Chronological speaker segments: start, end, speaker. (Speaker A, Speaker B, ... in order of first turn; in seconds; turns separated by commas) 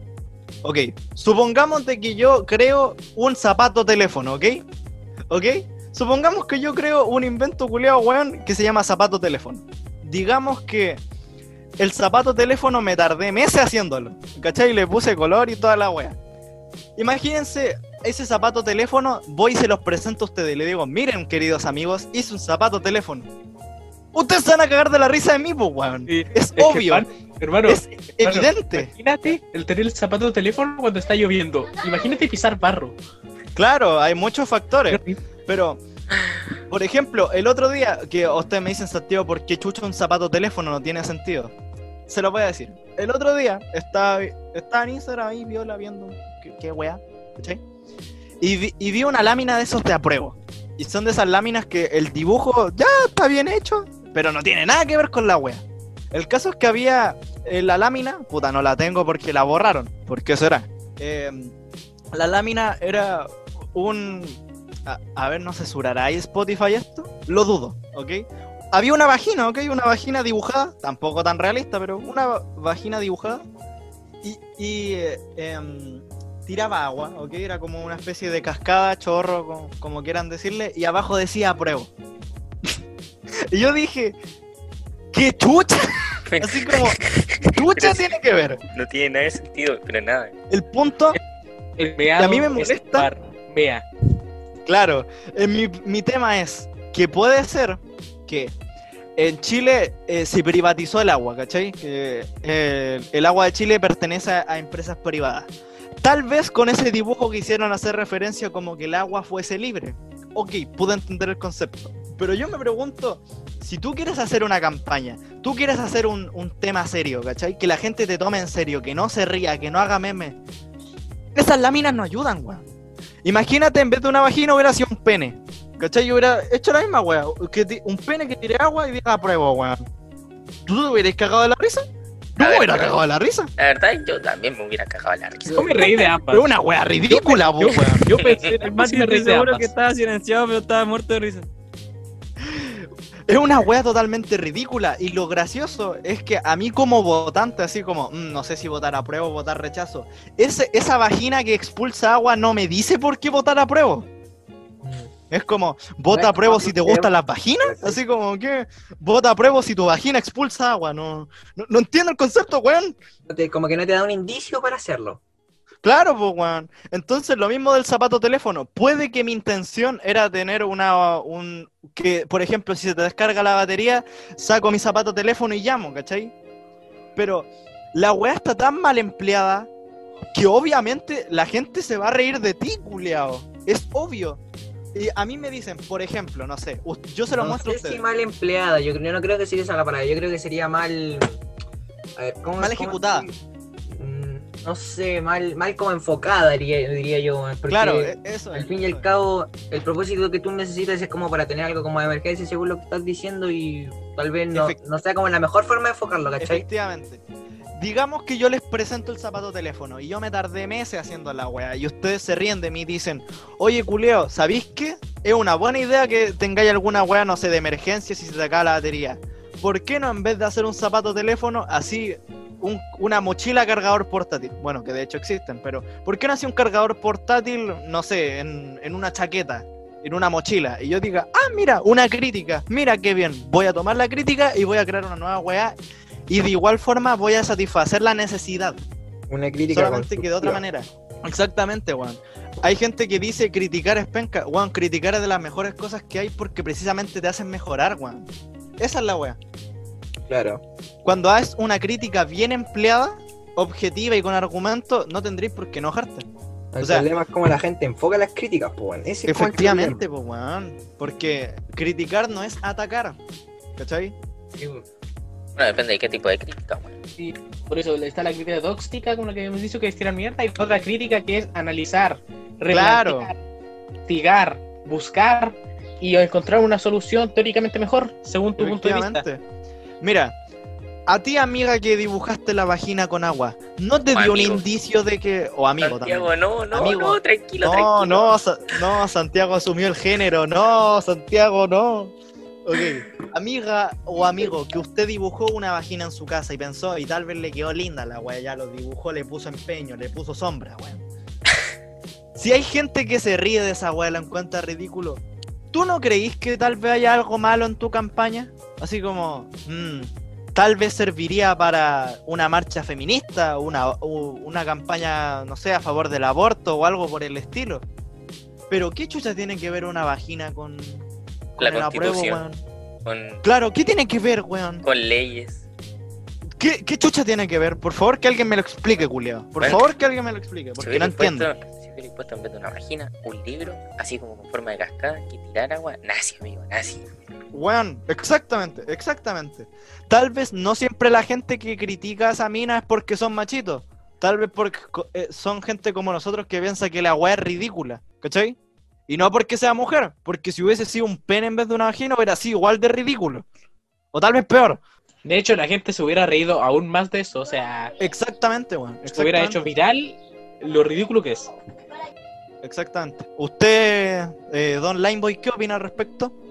Speaker A: 0.6-4.6, Speaker A: 5.3-11.0, Speaker A: 11.8-16.2, Speaker A: 17.0-23.3, Speaker A: 24.1-27.1, Speaker B: 26.1-32.9, Speaker A: 27.6-28.9, Speaker A: 33.5-35.8, Speaker B: 34.9-35.2, Speaker A: 36.7-41.5, Speaker A: 42.1-47.6, Speaker A: 48.4-61.5, Speaker A: 62.1-73.4, Speaker A: 74.2-81.9, Speaker A: 83.5-84.2, Speaker A: 85.1-88.6, Speaker C: 86.3-88.1, Speaker C: 88.7-90.3, Speaker A: 90.5-91.2, Speaker B: 91.8-93.8, Speaker A: 92.2-93.1, Speaker A: 94.7-98.5, Speaker A: 99.2-105.5, Speaker A: 106.0-120.3, Speaker A: 121.3-122.6, Speaker A: 123.2-129.8, Speaker A: 130.7-131.8, Speaker A: 132.3-133.5, Speaker C: 132.4-133.0, Speaker C: 133.6-136.1, Speaker B: 135.5-136.4, Speaker A: 136.3-138.1, Speaker B: 137.1-139.7, Speaker C: 138.2-138.4, Speaker D: 138.5-141.5, Speaker A: 142.4-154.1, Speaker E: 154.8-155.1, Speaker A: 155.3-162.9, Speaker E: 156.1-157.1, Speaker E: 157.6-158.0, Speaker E: 163.3-165.2, Speaker A: 165.8-176.3, Speaker A: 177.2-179.7, Speaker A: 180.3-184.4, Speaker A: 184.9-188.0, Speaker E: 187.3-191.4, Speaker E: 192.2-193.3, Speaker A: 192.6-193.3, Speaker E: 193.9-206.6, Speaker A: 197.7-199.1, Speaker A: 204.5-204.8, Speaker A: 206.4-207.2, Speaker A: 207.8-235.7, Speaker A: 236.3-238.8, Speaker E: 239.3-240.6, Speaker A: 239.7-248.3, Speaker A: 248.8-249.4, Speaker E: 250.3-250.6, Speaker A: 251.0-256.3, Speaker E: 256.7-260.0, Speaker A: 256.8-257.1, Speaker A: 259.2-263.2, Speaker A: 263.8-264.1, Speaker E: 264.6-264.8, Speaker C: 265.6-267.0, Speaker B: 267.2-273.4, Speaker A: 272.7-273.3, Speaker B: 274.1-279.2, Speaker A: 278.6-279.4, Speaker A: 280.0-280.3, Speaker A: 281.1-292.1, Speaker C: 284.1-284.6, Speaker C: 285.8-288.3, Speaker A: 292.6-301.0, Speaker A: 302.4-317.8, Speaker A: 318.7-321.0, Speaker A: 321.6-322.6, Speaker C: 321.6-322.4, Speaker C: 323.0-323.4, Speaker A: 323.4-324.9, Speaker C: 324.8-325.6, Speaker A: 326.6-331.5, Speaker C: 329.6-329.9, Speaker C: 330.8-337.0, Speaker A: 337.5-348.6, Speaker A: 349.1-353.4, Speaker A: 354.1-354.8, Speaker B: 355.2-357.9, Speaker A: 358.0-359.6, Speaker B: 359.1-361.5, Speaker A: 362.6-366.3